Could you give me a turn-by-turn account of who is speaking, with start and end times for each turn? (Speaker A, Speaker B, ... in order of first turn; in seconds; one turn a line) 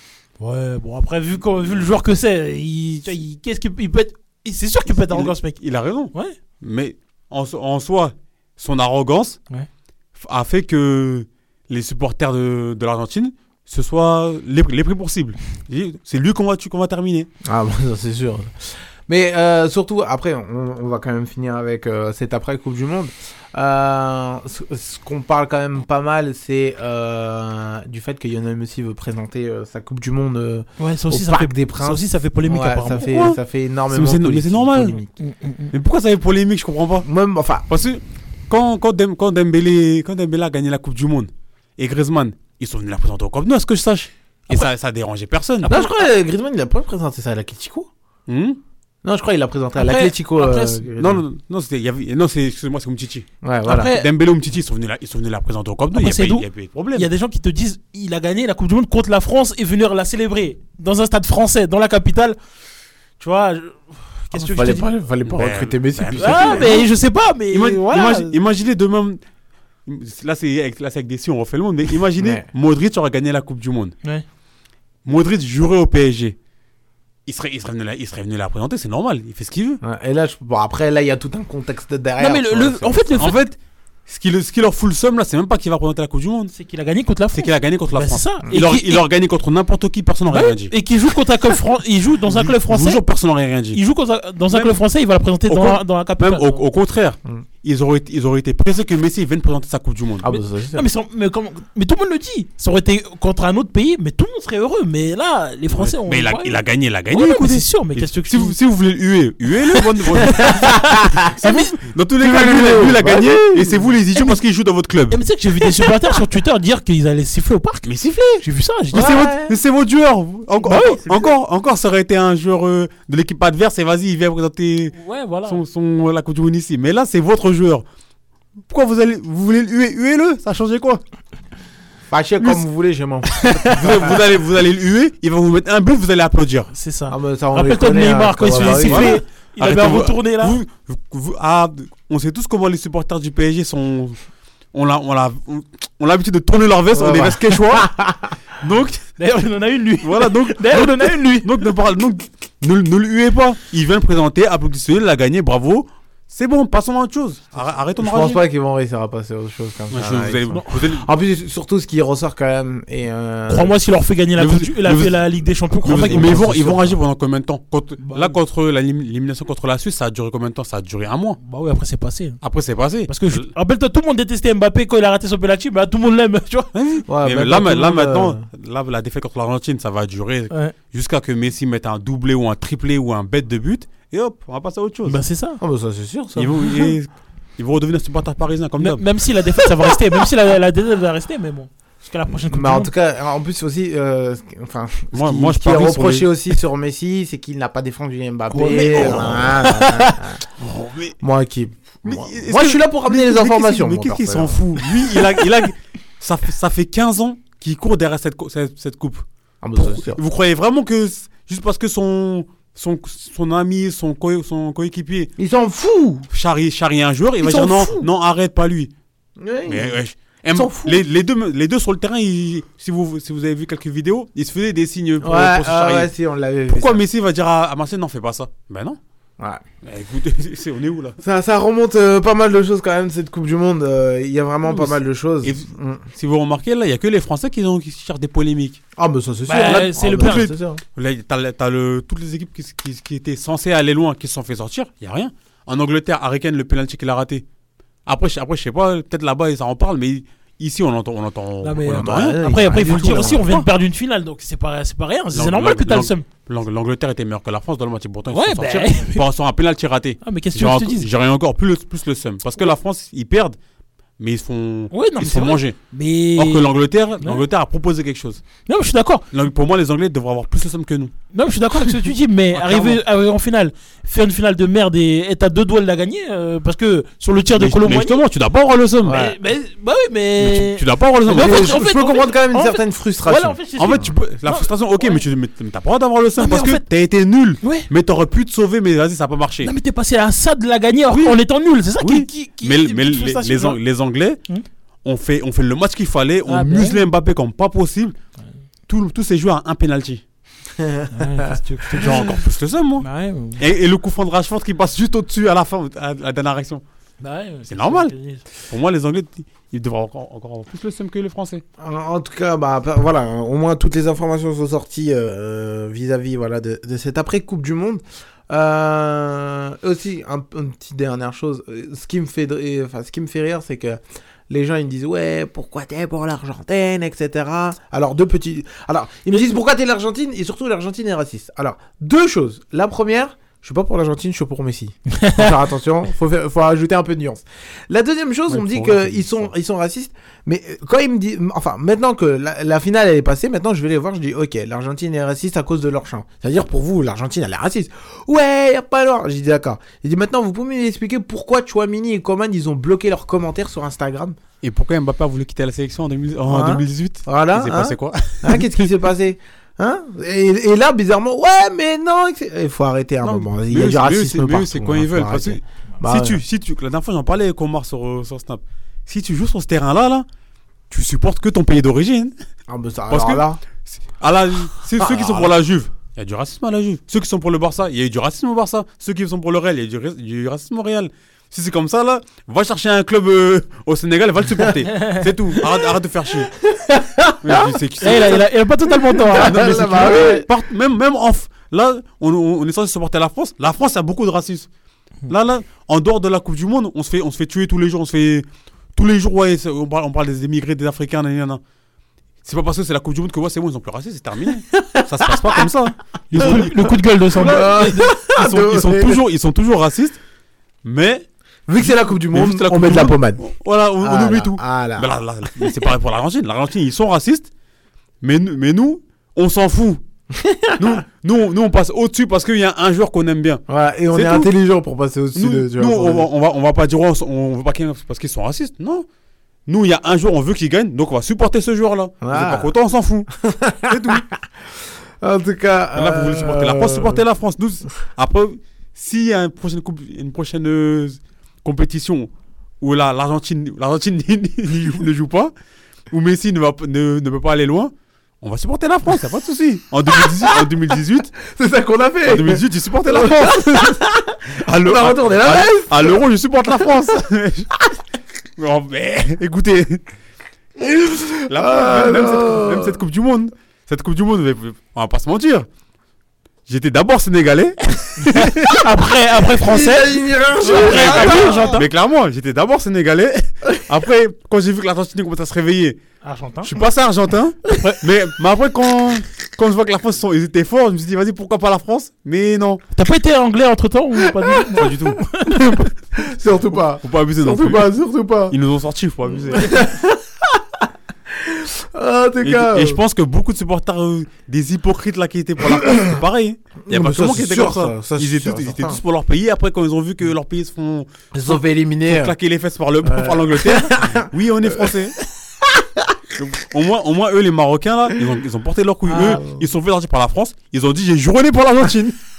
Speaker A: 0.4-6.4
Speaker B: 4.9-9.4
Speaker B: 10.2-17.3
Speaker C: 17.4-35.1
Speaker A: 30.8-33.1
Speaker B: 33.1-33.4
Speaker B: 33.9-35.0
Speaker A: 35.2-35.7
Speaker B: 35.7-37.1
Speaker C: 37.0-37.7
Speaker B: 37.7-45.7
Speaker A: 45.6-45.9
Speaker C: 45.7-47.9
Speaker B: 48.3-48.6
Speaker C: 49.0-51.2
Speaker A: 49.8-50.8
Speaker B: 51.0-53.3
Speaker C: 53.4-53.9
Speaker A: 53.6-54.1
Speaker B: 53.8-57.1
Speaker A: 55.9-62.4
Speaker A: 63.2-64.9
Speaker C: 64.3-66.8
Speaker B: 65.3-66.9
Speaker A: 66.2-68.3
Speaker B: 67.5-69.2
Speaker B: 69.9-73.9
Speaker C: 72.2-72.5
Speaker B: 75.0-76.4
Speaker B: 77.3-79.8
Speaker C: 79.8-83.4
Speaker A: 82.2-83.4
Speaker B: 83.2-86.5
Speaker A: 86.5-89.1
Speaker B: 87.3-90.7
Speaker A: 90.3-93.0
Speaker B: 92.3-93.8
Speaker A: 93.7-96.6
Speaker B: 94.5-94.8
Speaker B: 95.5-100.3
Speaker C: 100.2-100.9
Speaker A: 100.3-108.6
Speaker B: 105.8-115.2
Speaker A: 109.6-111.8
Speaker C: 110.3-111.3
Speaker C: 112.2-113.8
Speaker A: 115.1-117.9
Speaker B: 117.8-124.9
Speaker A: 118.4-119.3
Speaker C: 118.9-119.6
Speaker A: 120.6-121.2
Speaker A: 124.9-125.6
Speaker B: 125.5-127.9
Speaker B: 128.7-131.0
Speaker C: 132.1-134.2
Speaker B: 133.4-136.7
Speaker A: 136.7-140.6
Speaker C: 137.1-139.2
Speaker B: 138.6-144.2
Speaker B: 144.7-147.9
Speaker C: 146.9-148.3
Speaker B: 148.6-149.1
Speaker A: 149.2-151.5
Speaker B: 150.0-158.4
Speaker C: 158.0-163.8
Speaker B: 159.9-161.1
Speaker A: 160.5-160.8
Speaker A: 163.5-166.9
Speaker B: 164.3-165.2
Speaker B: 165.8-171.4
Speaker A: 168.0-168.4
Speaker A: 171.4-172.4
Speaker B: 172.4-173.5
Speaker A: 173.1-176.7
Speaker B: 176.7-185.2
Speaker C: 177.1-178.5
Speaker A: 185.1-185.6
Speaker C: 185.6-186.9
Speaker B: 186.4-189.1
Speaker A: 188.8-192.9
Speaker C: 192.5-200.4
Speaker B: 195.1-196.3
Speaker A: 198.5-200.2
Speaker B: 198.8-199.5
Speaker B: 200.6-201.2
Speaker C: 201.2-205.3
Speaker B: 202.0-209.3
Speaker C: 209.6-210.2
Speaker B: 209.8-215.3
Speaker C: 215.4-216.3
Speaker B: 216.3-218.9
Speaker C: 217.4-218.1
Speaker C: 219.4-220.0
Speaker B: 219.7-226.1
Speaker C: 220.5-221.0
Speaker C: 225.2-227.1
Speaker B: 226.7-229.0
Speaker B: 229.8-231.2
Speaker C: 231.2-236.0
Speaker B: 234.7-238.8
Speaker C: 239.0-240.8
Speaker A: 239.5-240.5
Speaker B: 240.1-247.4
Speaker B: 248.1-253.6
Speaker A: 251.6-256.3
Speaker C: 251.9-253.7
Speaker B: 255.3-263.6
Speaker A: 258.3-259.2
Speaker A: 260.2-261.1
Speaker B: 264.2-265.8
Speaker A: 264.9-267.4
Speaker B: 266.4-268.4
Speaker A: 268.7-269.2
Speaker B: 269.3-271.1
Speaker A: 271.3-278.2
Speaker B: 271.9-273.0
Speaker B: 277.6-279.3
Speaker A: 279.1-285.2
Speaker C: 279.1-279.4
Speaker B: 280.4-281.8
Speaker C: 281.3-284.1
Speaker B: 283.8-289.7
Speaker A: 286.4-286.9
Speaker A: 287.6-287.9
Speaker A: 289.6-293.8
Speaker B: 291.1-294.4
Speaker B: 295.0-298.1
Speaker A: 296.5-297.0
Speaker B: 298.9-300.2
Speaker C: 300.8-301.5
Speaker A: 301.1-302.3
Speaker B: 302.0-303.1
Speaker A: 303.0-303.6
Speaker B: 303.6-306.8
Speaker A: 307.2-308.4
Speaker B: 307.7-311.6
Speaker C: 311.8-354.4
Speaker A: 335.1-335.5
Speaker B: 338.5-339.5
Speaker B: 354.6-358.7
Speaker C: 356.5-366.4
Speaker B: 363.2-370.3
Speaker B: 370.9-372.3
Speaker C: 372.7-373.6
Speaker B: 373.1-386.5
Speaker C: 375.0-375.6
Speaker A: 384.9-385.2
Speaker C: 386.7-390.5
Speaker B: 387.4-388.4
Speaker A: 388.0-390.4
Speaker B: 389.3-394.7
Speaker B: 395.3-401.6
Speaker B: 402.4-410.2
Speaker C: 404.7-405.7
Speaker A: 406.3-408.1
Speaker C: 406.4-406.6
Speaker C: 407.3-409.2
Speaker B: 410.8-411.2
Speaker C: 411.7-413.5
Speaker B: 411.8-417.5
Speaker C: 414.0-415.7
Speaker B: 418.2-420.0
Speaker C: 420.3-421.0
Speaker B: 420.8-424.5
Speaker C: 423.7-426.3
Speaker B: 425.4-429.1
Speaker B: 429.7-433.3
Speaker C: 432.2-432.7
Speaker C: 433.4-434.3
Speaker B: 433.9-434.2
Speaker C: 435.2-437.2
Speaker B: 435.9-445.5
Speaker B: 446.1-451.3
Speaker C: 450.3-450.7
Speaker C: 451.4-456.2
Speaker B: 452.2-454.0
Speaker B: 454.6-457.7
Speaker B: 458.6-460.0
Speaker C: 460.8-463.0
Speaker B: 461.5-465.7
Speaker B: 466.7-468.8
Speaker A: 468.3-471.9
Speaker C: 469.6-471.8
Speaker B: 470.6-476.0
Speaker A: 476.2-476.7
Speaker B: 476.6-482.8
Speaker A: 477.6-478.0
Speaker A: 482.9-485.8
Speaker C: 484.4-484.8
Speaker B: 484.8-485.9
Speaker C: 486.2-488.6
Speaker B: 487.0-487.9
Speaker B: 488.5-489.8
Speaker C: 489.5-493.0
Speaker B: 492.4-505.1
Speaker C: 495.9-496.1
Speaker C: 496.9-499.0
Speaker C: 501.3-502.4
Speaker C: 503.0-504.9
Speaker C: 505.6-506.1
Speaker B: 506.4-512.2
Speaker C: 509.1-509.7